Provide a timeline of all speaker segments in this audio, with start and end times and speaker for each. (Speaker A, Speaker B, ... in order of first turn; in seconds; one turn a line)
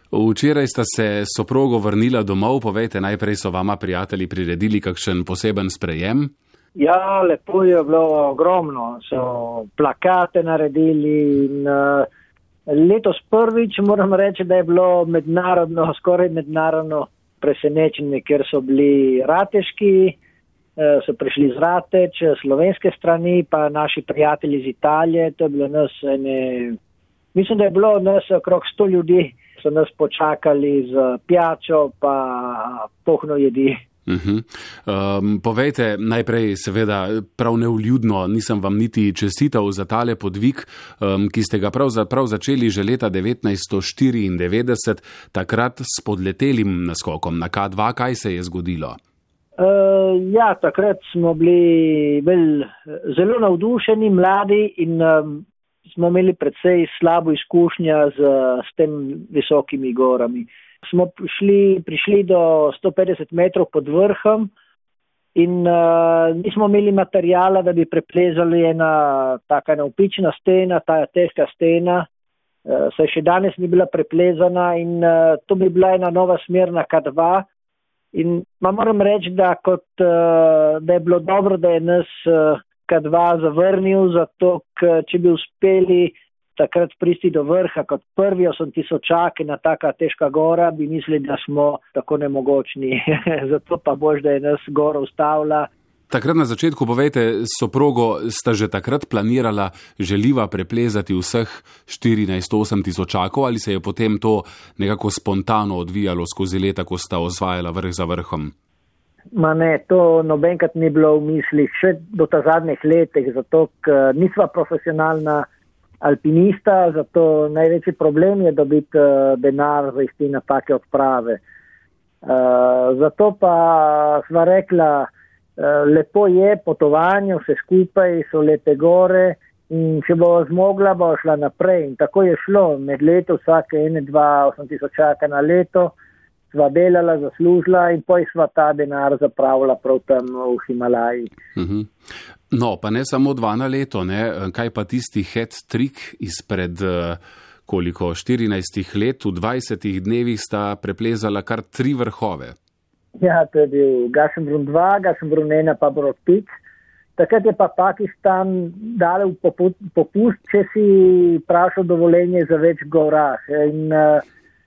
Speaker A: 0.1-6.3
Speaker B: 6.8-12.1
Speaker B: 12.7-20.1
Speaker B: 20.8-26.8
Speaker B: 27.3-33.7
Speaker A: 34.1-49.0
Speaker B: 49.6-64.5
Speaker B: 65.3-72.0
Speaker B: 72.7-77.5
Speaker B: 78.1-95.7
Speaker A: 96.1-108.5
Speaker B: 109.3-115.5
Speaker B: 116.0-121.4
Speaker B: 122.2-135.9
Speaker B: 136.5-141.3
Speaker A: 141.6-141.9
Speaker A: 142.5-152.5
Speaker B: 153.2-156.5
Speaker B: 157.2-164.2